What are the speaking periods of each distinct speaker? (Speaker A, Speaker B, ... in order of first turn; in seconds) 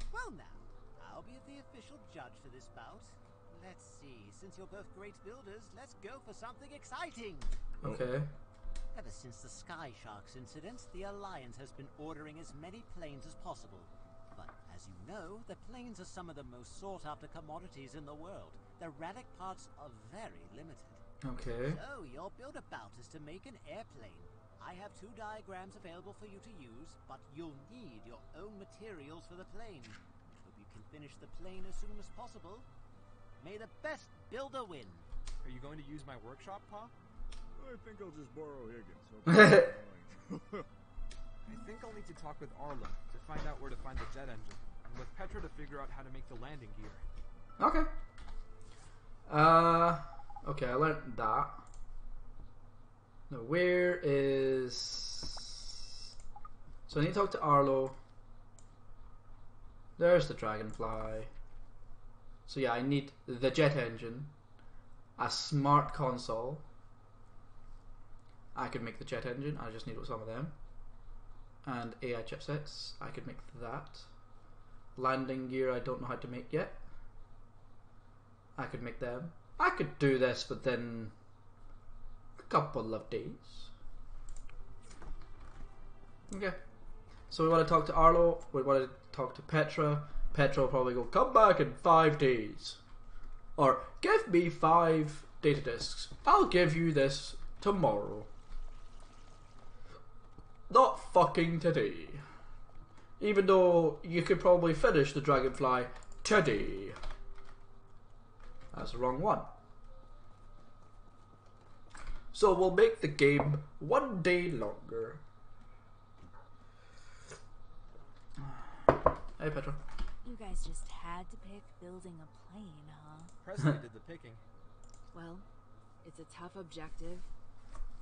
Speaker A: 0.1-7.6, 8.9-21.0, 21.6-32.7, 33.4-35.1
Speaker B: 7.8-8.3, 21.2-21.8, 39.3-39.6, 47.6-47.9, 49.3-51.6, 53.3-55.7, 56.9-58.0, 60.0-61.3, 62.5-64.3, 65.2-66.6, 68.5-70.5, 71.6-74.1, 75.0-76.8, 78.5-81.1, 82.4-83.7, 86.3-86.6, 87.3-92.8, 93.6-98.3, 100.7-102.2, 103.2-107.0, 108.7-109.5, 112.3-115.2, 118.4-119.8
Speaker C: 35.4-36.9, 41.5-47.0, 123.4-124.4
Speaker D: 37.5-40.7
Speaker E: 120.2-123.3, 125.1-125.5, 126.0-127.3